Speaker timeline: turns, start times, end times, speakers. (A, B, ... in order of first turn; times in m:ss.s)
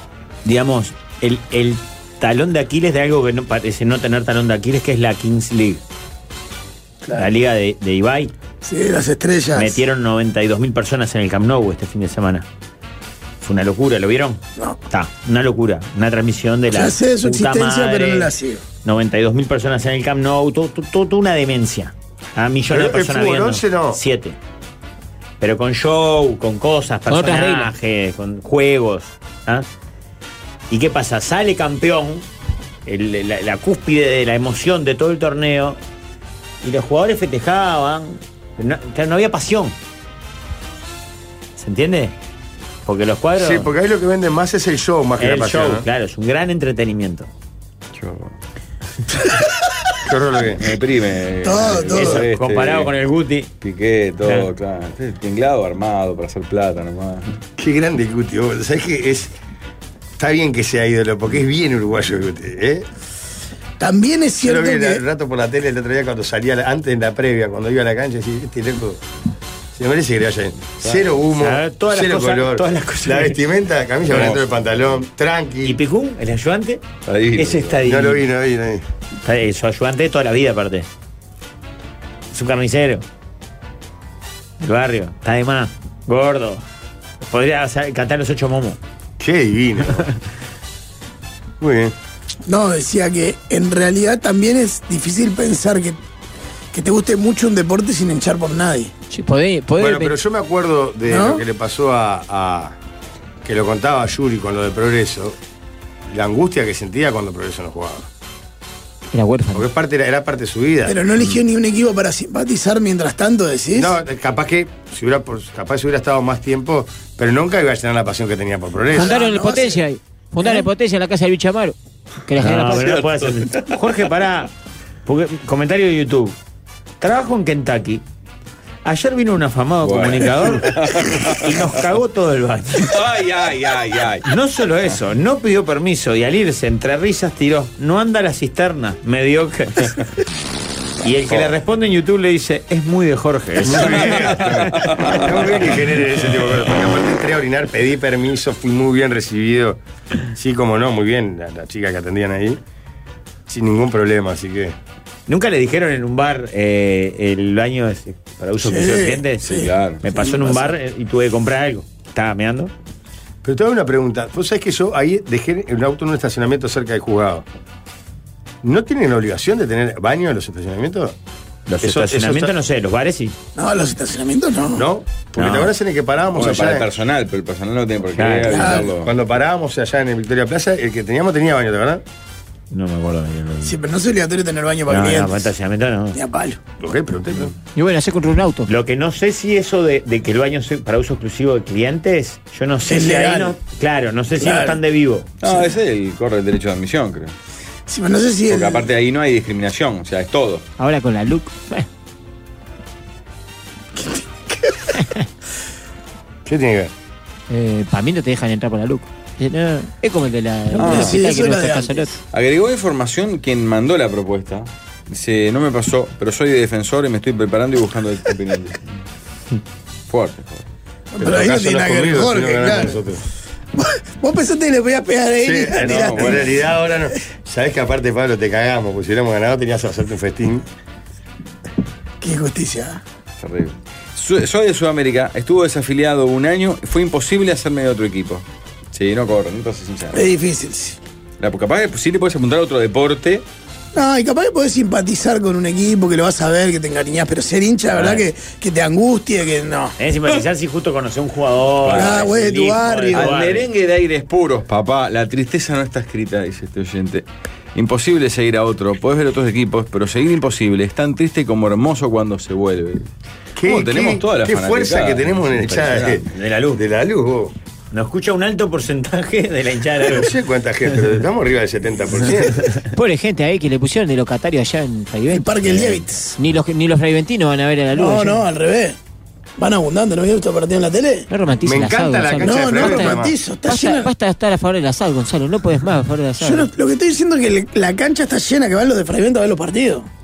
0:00.4-0:05.8 A
0:07.1-0:08.3 A
0:08.6-0:09.8 B
0:09.5-0:12.4 A
0:13.4-0:18.3 A
0:16.7-0:18.6 B
0:18.8-0:24.4 A
0:22.7-0:24.0 C
0:25.4-0:29.6 A
0:27.1-0:27.7 D
0:30.7-0:32.3 A
0:32.8-0:35.8 A
0:36.6-0:39.8 A
0:41.6-0:42.1 A
0:42.8-0:43.7 A
0:43.4-0:45.8 C
0:45.2-0:47.3 A
0:48.0-0:48.3 E
0:50.0-0:50.6 C
0:50.6-0:52.9 E
0:51.4-0:52.2 B
0:51.9-0:53.5 A
0:53.6-0:57.4 E
0:57.6-0:59.3 C
1:00.2-1:02.8 C
1:03.8-1:05.0 B
1:04.4-1:09.0 C
1:09.7-1:15.8 C
1:10.8-1:11.0 E
1:11.3-1:13.4 A
1:14.1-1:14.4 E
1:15.6-1:16.8 A
1:17.0-1:17.8 E
1:17.4-1:18.2 A
1:17.8-1:18.8 C
1:19.2-1:20.9 A
1:22.3-1:23.0 A
1:24.6-1:26.6 A
1:27.2-1:28.8 A
1:29.2-1:30.1 C
1:31.6-1:31.9 C
1:32.5-1:36.0 B
1:36.7-1:38.9 B
1:39.1-1:40.2 D
1:39.8-1:42.7 C
1:41.1-1:41.4 B
1:43.4-1:45.4 C
1:46.1-1:48.1 C
1:49.1-1:49.7 D
1:49.5-1:51.0 C
1:50.8-1:53.9 B
1:53.7-1:59.2 C
1:58.9-1:59.8 B
1:58.9-2:01.7 D
2:02.3-2:03.0 D
2:02.4-2:04.5 A
2:02.8-2:03.7 E
2:05.0-2:06.4 A
2:07.0-2:08.0 A
2:08.8-2:13.0 A
2:09.8-2:11.7 E
2:12.8-2:14.2 E
2:14.2-2:20.0 A
2:21.0-2:24.4 A
2:23.6-2:29.8 C
2:23.7-2:25.8 E
2:30.3-2:32.6 C
2:33.5-2:34.7 C
2:35.3-2:42.7 A
2:38.6-2:40.7 B
2:39.4-2:40.0 E
2:43.4-2:47.4 C
2:48.6-2:51.1 C
2:51.7-2:53.4 A
2:51.8-2:52.5 C
2:53.5-2:54.9 B
2:54.7-2:56.8 C
2:55.4-2:55.7 A
2:56.3-2:59.1 E
2:58.2-2:58.7 A
2:58.5-2:58.9 B
2:59.0-3:02.0 C
3:02.7-3:03.7 A
3:03.6-3:05.5 B
3:04.9-3:06.2 A
3:06.1-3:06.6 B
3:06.8-3:07.5 C
3:07.8-3:08.7 D
3:08.6-3:15.3 A
3:12.9-3:13.6 B
3:14.4-3:14.8 B
3:15.4-3:17.3 E
3:17.9-3:18.9 B
3:18.5-3:20.6 E
3:20.8-3:21.8 D
3:23.9-3:25.0 B
3:26.4-3:26.9 C
3:27.5-3:32.1 D
3:30.7-3:32.1 B
3:30.8-3:31.2 E
3:32.3-3:39.0 E
3:40.1-3:40.7 E
3:41.1-3:43.0 B
3:41.2-3:43.2 C
3:43.7-3:46.5 B
3:45.4-3:50.6 C
3:45.8-3:46.5 E
3:52.2-3:53.0 B
3:53.4-4:00.2 E
4:00.1-4:01.0 B
4:01.4-4:03.4 E
4:03.9-4:09.9 B
4:07.9-4:08.2 A
4:10.0-4:13.6 A
4:11.8-4:12.3 E
4:11.9-4:13.4 B
4:13.1-4:23.1 E
4:23.6-4:27.5 C
4:23.6-4:26.2 E
4:26.2-4:26.8 A
4:27.9-4:30.3 A
4:30.1-4:32.7 C
4:32.9-4:38.4 D
4:35.3-4:36.4 B
4:37.9-4:39.0 B
4:39.6-4:41.3 B
4:41.3-4:46.7 D
4:41.6-4:43.3 C
4:42.4-4:44.1 B
4:46.4-4:50.1 B